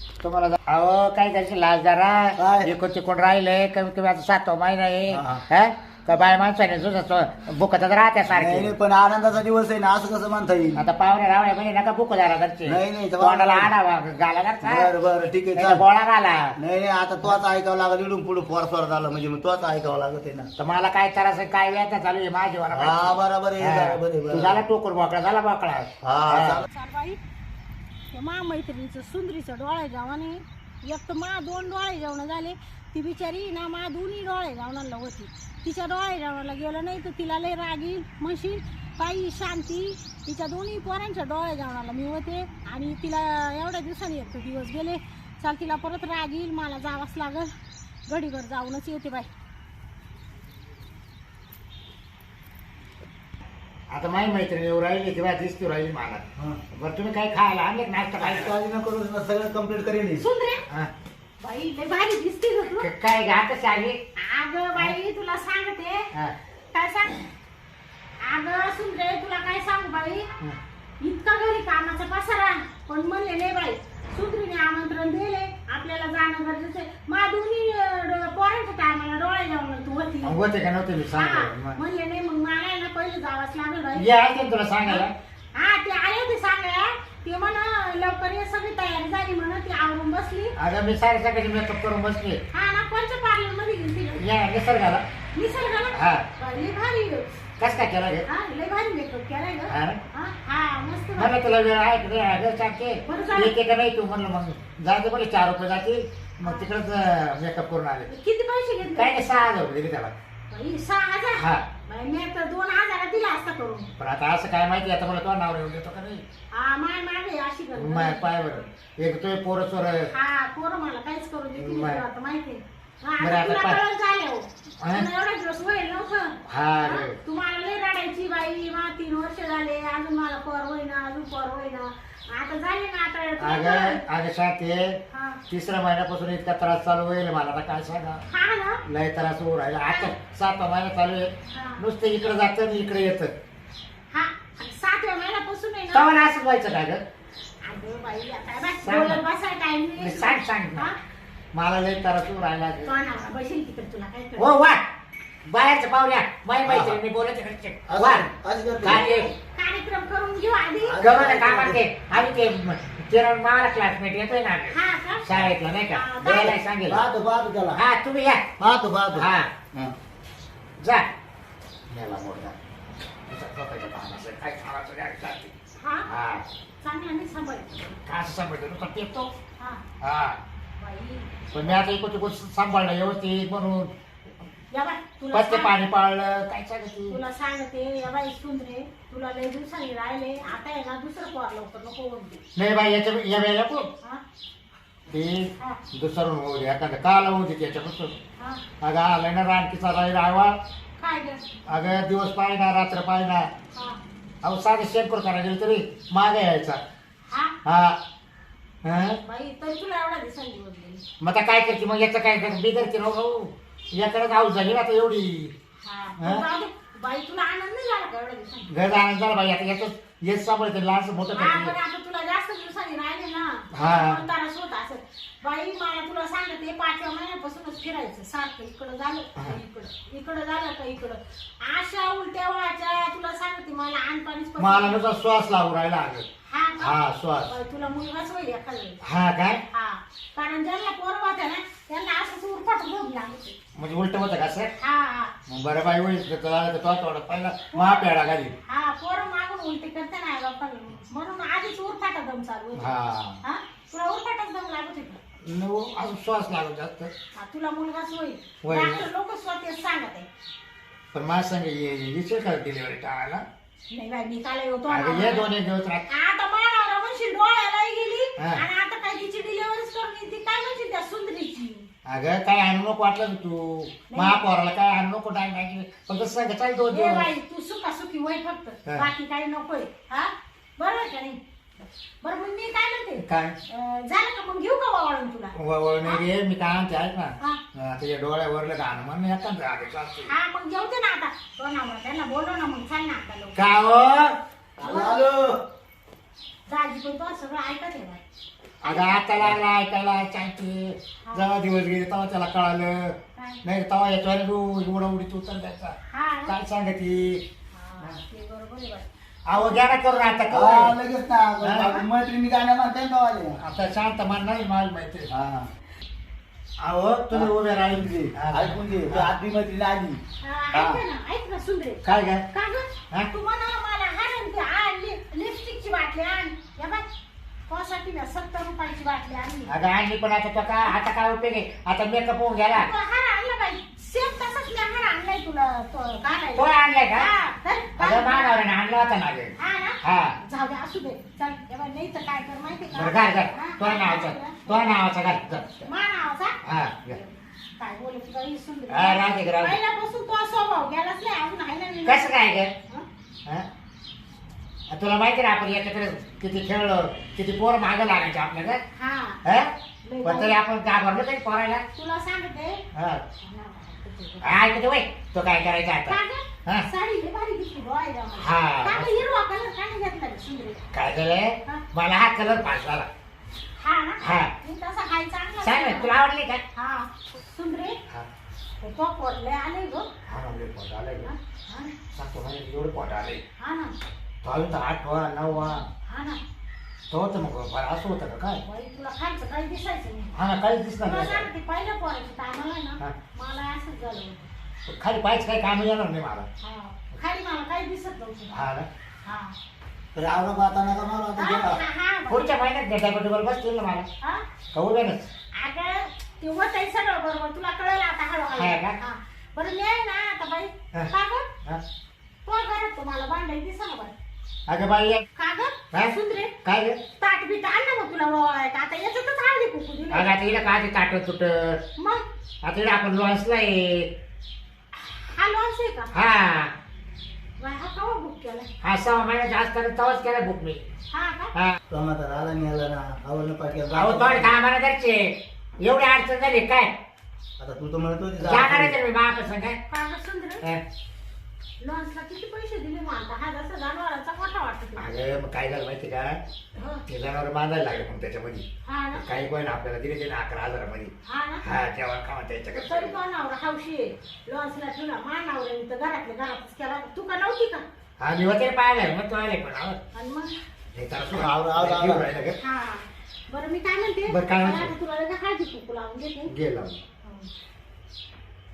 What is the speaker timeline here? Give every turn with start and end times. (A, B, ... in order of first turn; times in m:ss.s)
0:00.2-0:08.7 A
0:02.4-0:02.7 B
0:05.1-0:05.4 B
0:08.3-0:10.8 B
0:10.7-0:14.9 A
0:12.6-0:13.7 B
0:14.6-0:15.8 B
0:15.6-0:16.6 A
0:16.6-0:20.5 B
0:20.6-0:26.6 A
0:22.7-0:24.6 B
0:26.0-0:26.7 B
0:26.7-0:27.2 C
0:28.1-0:47.5 C
0:48.1-0:49.3 C
0:53.9-0:58.5 A
0:56.4-0:56.6 B
0:58.2-1:00.2 B
1:00.2-1:00.6 C
1:01.4-1:02.9 C
1:02.7-1:04.0 A
1:04.2-1:06.1 C
1:06.7-1:07.3 C
1:08.2-1:10.3 C
1:11.0-1:20.4 C
1:20.2-1:21.8 A
1:21.1-1:24.1 C
1:23.9-1:25.1 A
1:24.8-1:30.5 C
1:30.6-1:32.4 A
1:32.5-1:34.2 C
1:34.2-1:35.0 A
1:35.3-1:37.3 C
1:35.9-1:36.2 A
1:37.6-1:38.3 A
1:38.2-1:41.3 C
1:39.7-1:40.0 A
1:41.2-1:48.1 A
1:43.0-1:43.5 C
1:46.4-1:46.7 C
1:48.1-1:49.3 C
1:48.9-1:50.1 A
1:50.5-1:53.9 C
1:51.3-1:51.6 A
1:54.0-1:56.2 A
1:56.5-1:58.6 C
1:57.8-2:00.1 A
2:00.1-2:14.0 C
2:01.5-2:02.0 A
2:03.2-2:03.8 A
2:06.5-2:07.2 A
2:13.4-2:18.2 A
2:15.1-2:15.4 C
2:18.3-2:18.8 C
2:18.8-2:23.3 A
2:19.9-2:20.1 C
2:21.5-2:21.8 C
2:24.1-2:26.2 C
2:25.9-2:27.0 A
2:27.6-2:31.0 C
2:28.6-2:29.2 A
2:30.0-2:30.9 A
2:31.5-2:32.9 A
2:32.8-2:34.5 C
2:34.4-2:34.8 A
2:35.4-2:38.3 A
2:36.6-2:37.0 B
2:37.9-2:39.0 B
2:38.8-2:39.3 A
2:38.8-2:41.4 C
2:40.8-2:41.8 B
2:41.0-2:47.0 A
2:44.7-2:46.6 C
2:46.2-2:47.8 B
2:47.7-2:48.4 A
2:48.6-2:49.9 B
2:49.1-2:49.5 A
2:50.8-2:51.1 A
2:51.9-2:52.6 A
2:53.3-2:55.5 A
2:55.8-2:56.1 C
2:56.1-2:56.4 A
2:56.8-2:57.8 C
2:58.0-2:59.3 A
2:59.6-2:59.8 C
3:00.0-3:00.4 A
3:00.8-3:01.8 C
3:01.5-3:03.9 A
3:04.7-3:05.7 C
3:05.3-3:07.2 A
3:07.1-3:12.4 C
3:12.6-3:13.9 A
3:15.1-3:18.1 A
3:18.4-3:18.6 C
3:18.8-3:20.6 A
3:21.0-3:21.5 C
3:21.7-3:23.5 A
3:23.7-3:24.0 C
3:24.4-3:26.8 A
3:27.3-3:27.5 C
3:27.6-3:28.0 A
3:28.8-3:29.2 A
3:29.2-3:31.0 C
3:31.2-3:35.5 A
3:35.8-3:38.7 C
3:36.2-3:36.4 A
3:38.7-3:41.7 A
3:41.3-3:55.0 C
3:43.7-3:44.2 A
3:54.6-3:56.3 A
3:56.4-3:59.0 C
3:56.8-3:57.5 A
3:59.0-3:59.6 A
3:59.7-4:03.6 C
4:03.7-4:04.7 A
4:04.8-4:05.3 C
4:05.5-4:08.5 A
4:07.7-4:08.1 C
4:08.6-4:12.9 C
4:12.8-4:13.4 A
4:13.4-4:15.2 C
4:15.4-4:17.1 A
4:17.3-4:20.3 C
4:18.6-4:19.0 A
4:21.1-4:23.4 A
4:23.9-4:25.5 C
4:24.9-4:26.1 A
4:26.1-4:31.9 C
4:28.4-4:28.6 A
4:32.0-4:37.3 A
4:34.1-4:34.4 C
4:36.9-4:41.4 C
4:42.2-4:46.2 C
4:43.2-4:43.6 A
4:45.5-4:50.3 A
4:50.2-4:53.6 C
4:53.6-4:54.4 A
4:54.8-4:55.6 B
4:54.8-4:55.2 C
4:56.7-4:58.2 C
4:58.8-5:06.0 A
4:58.8-4:59.2 C
5:01.2-5:01.5 C
5:03.4-5:03.6 C
5:06.1-5:06.6 C
5:06.5-5:07.4 A
5:07.7-5:09.8 C
5:09.5-5:11.0 A
5:10.5-5:13.6 B
5:11.6-5:12.0 A
5:13.6-5:15.3 A
5:15.3-5:15.7 B
5:16.8-5:19.3 A
5:17.3-5:20.2 B
5:20.4-5:27.0 C
5:20.7-5:21.0 B
5:22.0-5:22.4 A
5:27.7-5:29.7 C
5:29.7-5:32.9 A
5:32.7-5:38.6 C
5:36.5-5:37.3 A
5:38.0-5:40.4 A
5:39.6-5:45.0 C
5:42.9-5:45.9 A
5:45.8-5:46.6 C
5:46.6-5:47.2 A
5:47.1-5:52.3 C
5:48.9-5:49.8 A
5:52.0-5:52.7 A
5:54.9-5:58.8 A
5:58.9-5:59.4 C
5:59.4-5:59.7 A
6:00.0-6:00.6 C
6:00.2-6:01.8 A
6:01.9-6:02.8 C
6:02.9-6:03.2 A
6:03.4-6:04.5 C
6:04.4-6:06.9 A
6:06.1-6:10.8 C
6:08.4-6:09.2 A
6:10.9-6:13.1 A
6:13.8-6:16.2 C
6:14.2-6:14.5 A
6:15.6-6:16.6 A
6:16.7-6:18.0 C
6:18.8-6:20.1 C
6:20.2-6:21.3 A
6:21.2-6:21.9 C
6:22.1-6:23.4 A
6:23.6-6:23.9 C
6:24.4-6:25.8 A
6:25.6-6:26.4 C
6:27.1-6:28.6 A
6:28.6-6:30.3 C
6:30.3-6:31.5 A
6:31.0-6:34.5 C
6:34.9-6:36.5 A
6:36.6-6:38.6 C
6:38.5-6:38.9 A
6:39.2-6:39.5 C
6:40.1-6:41.8 B
6:41.4-6:42.5 C
6:42.3-6:44.1 A
6:44.7-6:45.3 A
6:45.5-6:51.5 C
6:48.5-6:49.0 A
6:52.4-6:54.1 C
6:54.7-6:55.2 A
6:55.4-6:56.5 C
6:55.9-6:57.0 A
6:57.2-7:00.3 C
7:00.1-7:01.8 A
7:02.0-7:02.2 C
7:02.6-7:04.1 A
7:04.9-7:06.1 C
7:06.1-7:06.7 A
7:07.6-7:08.7 C
7:08.8-7:10.8 A
7:11.1-7:11.5 C
7:11.9-7:14.6 B
7:13.9-7:16.9 A
7:17.6-7:19.0 B
7:18.4-7:19.8 A
7:19.9-7:20.6 C
7:21.8-7:25.1 C
7:25.0-7:26.4 A
7:26.7-7:27.0 C
7:27.1-7:33.2 A
7:28.8-7:29.2 C
7:31.2-7:31.6 C
7:32.7-7:37.8 C
7:38.2-7:40.0 A
7:40.1-7:40.6 C
7:40.9-7:42.6 A
7:41.3-7:42.3 B
7:42.6-7:46.5 C
7:44.3-7:44.9 A
7:46.5-7:47.0 A
7:47.2-7:47.5 C